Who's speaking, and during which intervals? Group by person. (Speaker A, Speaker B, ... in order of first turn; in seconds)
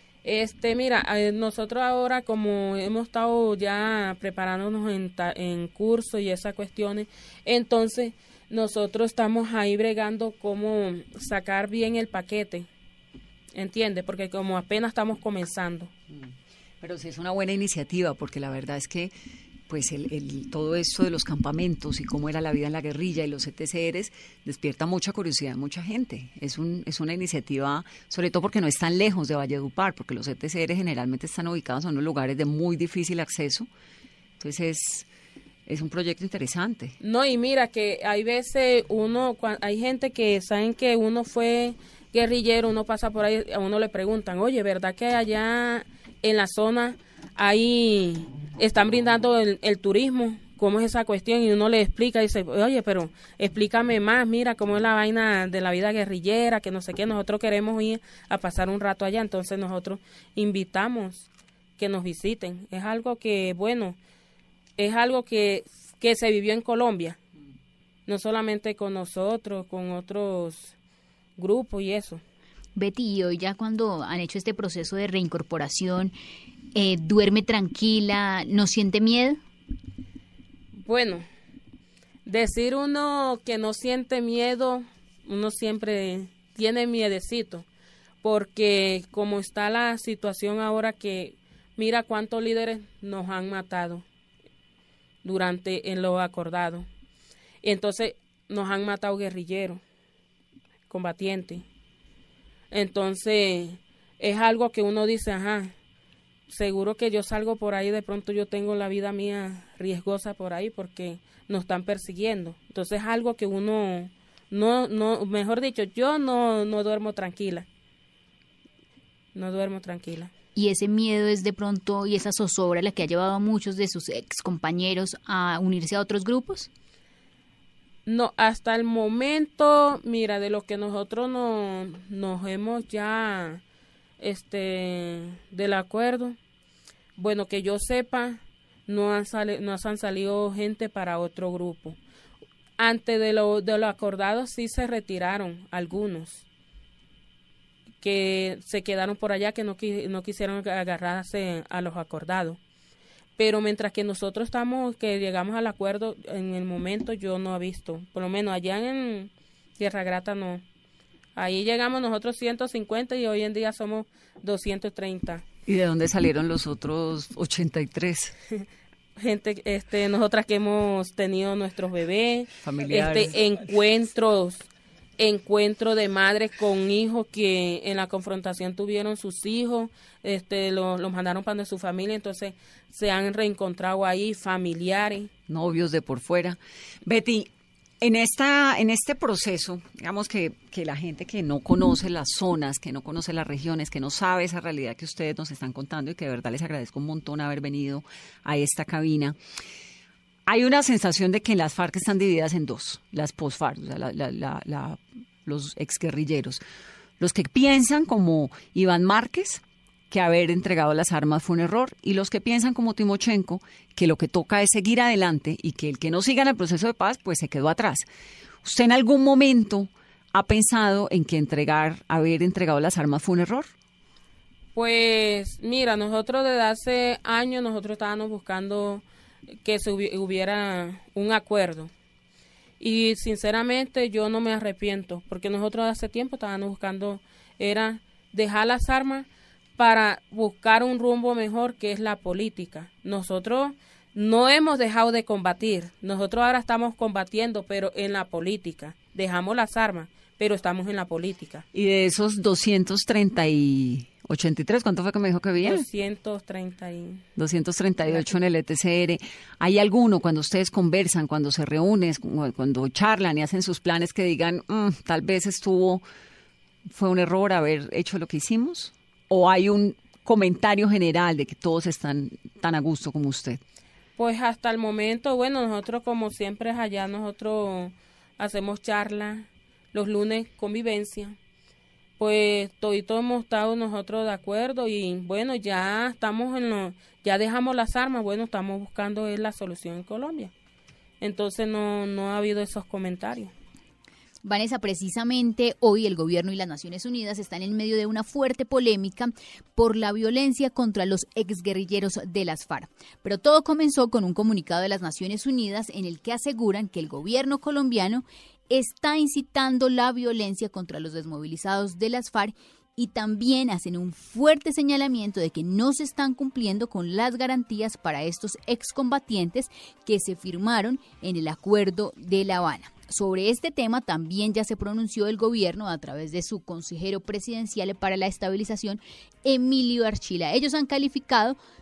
Speaker A: 0.2-12.7, 13.5-15.9, 37.0-64.0, 64.8-67.2, 68.1-70.7, 71.4-72.2, 80.8-81.2, 82.2-87.7, 88.2-94.0, 95.2-96.8, 97.6-99.8, 100.9-101.6, 102.7-105.7, 106.5-117.7, 119.3-120.3, 128.1-133.6, 134.2-136.3, 137.2-142.0, 142.8-146.4, 148.0-152.6, 153.4-160.6, 161.3-165.4, 169.2-174.7, 175.2-185.3, 224.7-229.0, 229.6-231.9, 232.8-251.6, 255.6-257.2, 274.2-281.4, 282.2-290.5, 291.2-293.5
Speaker B: 16.1-19.1, 19.7-33.7, 34.4-35.1, 35.6-36.9, 165.7-168.3, 172.6-173.4, 185.5-187.5, 188.0-199.3, 200.5-206.6, 207.2-218.1, 218.6-223.7, 251.7-255.8, 257.4-266.0, 266.9-273.6
Speaker C: 72.8-76.1, 76.7-79.4, 120.5-126.7, 294.4-331.6